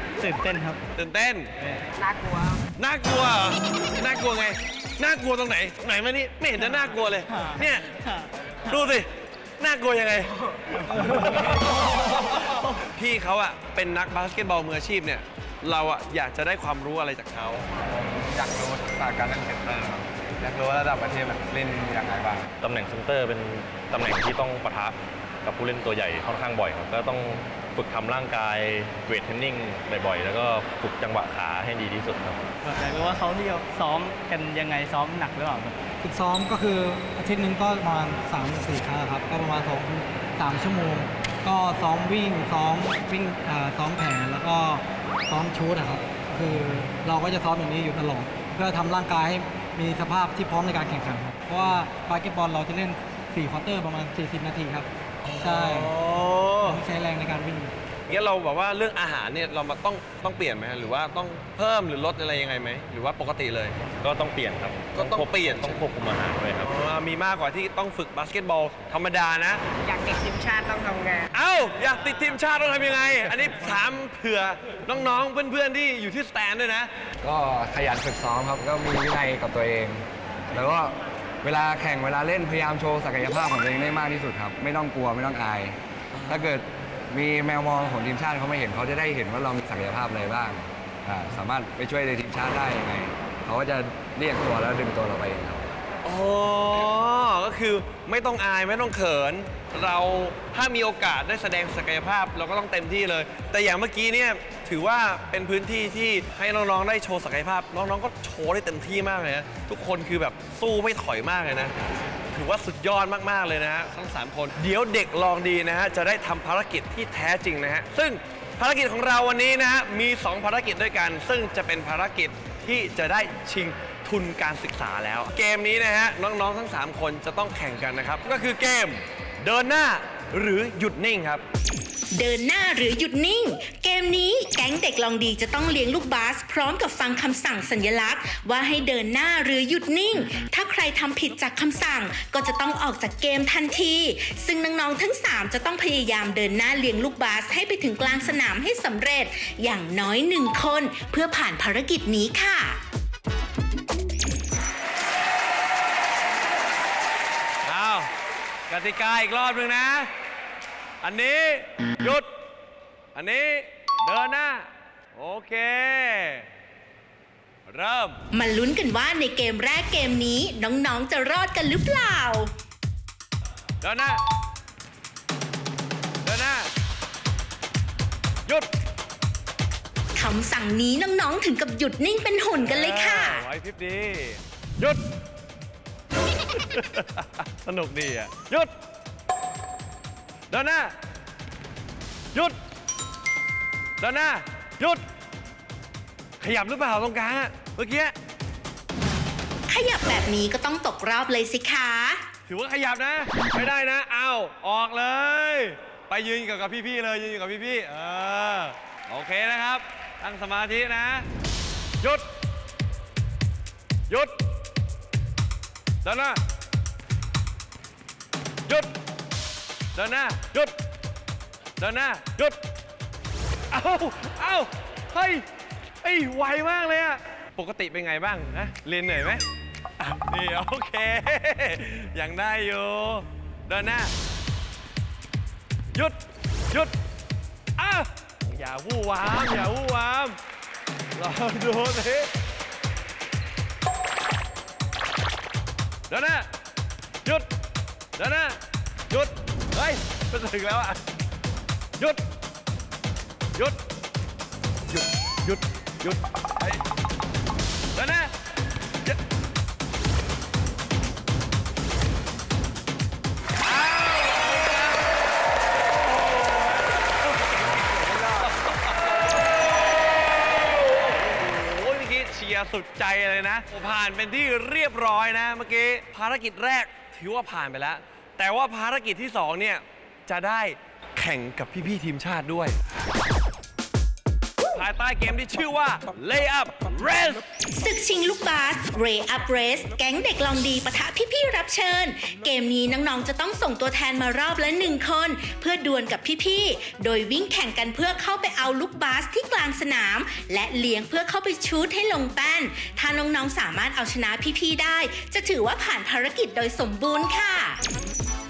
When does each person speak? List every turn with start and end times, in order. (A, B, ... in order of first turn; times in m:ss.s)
0:00.2-0:00.8 A
0:01.0-0:01.5 B
0:02.0-0:02.6 C
0:02.8-0:07.9 B
0:07.3-0:08.8 A
0:08.7-0:10.3 B
0:10.9-0:17.7 B
0:17.8-0:22.5 D
0:22.6-0:32.4 E
0:32.6-0:35.8 A
0:36.0-0:56.0 F
0:55.2-0:56.8 B
0:56.6-0:57.7 F
0:58.1-1:03.8 B
1:04.0-1:06.7 E
1:04.9-1:05.8 B
1:06.6-1:09.6 B
1:09.8-1:11.3 C
1:11.3-1:16.9 B
1:17.2-1:35.7 G
1:26.1-1:26.5 B
1:36.0-1:51.7 B
1:52.3-2:11.4 B
2:12.1-2:32.8 H
2:37.6-2:38.1 B
2:38.7-2:40.1 B
2:41.0-2:42.3 B
2:43.1-2:46.4 B
2:47.7-2:48.2 B
2:48.3-2:52.5 H
2:53.8-2:54.2 B
2:56.2-2:56.7 B
3:00.1-3:03.4 H
3:02.6-3:05.0 B
3:06.5-3:08.7 B
3:10.5-3:10.9 B
3:14.0-3:15.0 B
3:16.4-3:18.1 B
3:19.7-3:22.2 H
3:22.5-3:31.3 B
3:34.1-3:34.4 B
3:36.0-3:36.4 B
3:38.6-3:38.9 B
3:39.9-3:40.7 B
3:41.8-3:42.6 B
3:43.7-3:45.4 B
3:46.0-3:49.4 B
3:50.0-3:54.1 B
3:57.8-4:00.4 B
4:01.2-4:02.3 B
4:06.1-4:06.5 B
4:08.2-4:08.6 B
4:09.1-4:11.0 B
4:12.0-4:12.2 B
4:14.9-4:16.8 B
4:17.9-4:18.3 B
4:23.6-4:42.8 B
4:44.7-4:47.4 B
4:47.8-5:07.8 H